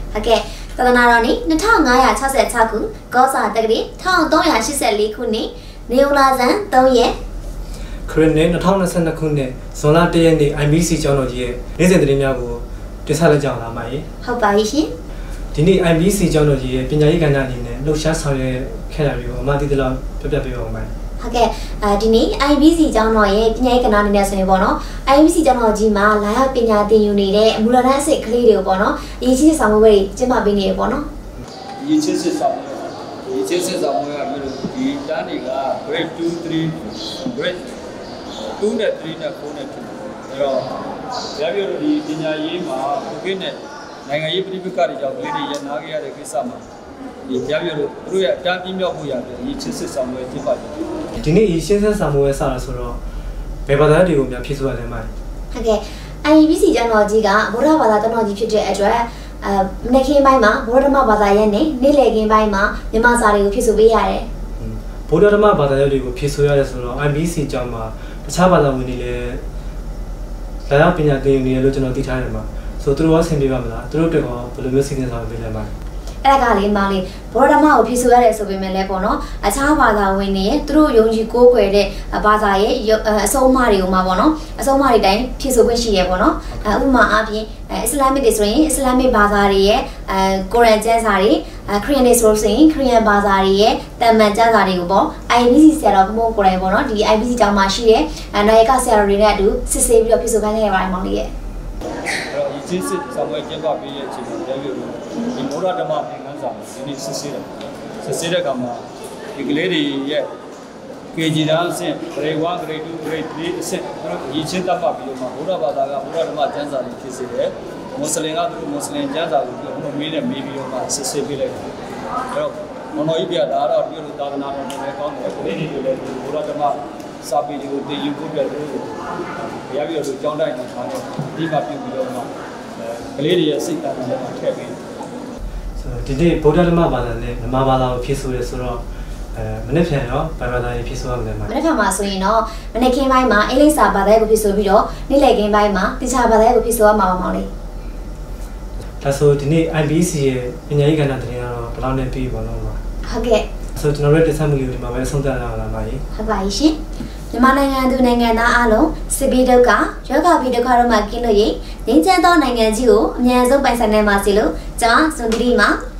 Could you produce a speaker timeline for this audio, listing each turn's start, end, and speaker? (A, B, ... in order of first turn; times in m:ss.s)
0:00.1-0:07.2 A
0:08.1-0:14.1 B
0:14.2-0:14.9 A
0:15.5-0:20.9 B
0:21.2-0:31.1 A
0:31.8-0:37.8 C
0:38.6-0:40.7 C
0:41.4-0:46.6 C
0:47.3-0:50.8 C
0:51.2-0:53.0 B
0:53.7-0:55.1 B
0:55.5-1:04.2 A
1:04.6-1:09.4 B
1:10.7-1:15.7 B
1:16.2-1:41.3 A
1:42.3-1:47.4 C
1:48.0-1:48.8 C
1:49.3-1:50.3 C
1:51.1-2:01.7 C
2:02.3-2:14.8 C
2:15.8-2:18.8 B
2:19.3-2:21.5 B
2:21.5-2:27.5 A
2:29.0-2:32.8 B
2:33.1-2:33.4 A
2:33.8-2:36.0 B
2:36.1-2:36.8 A
2:37.3-2:45.8 A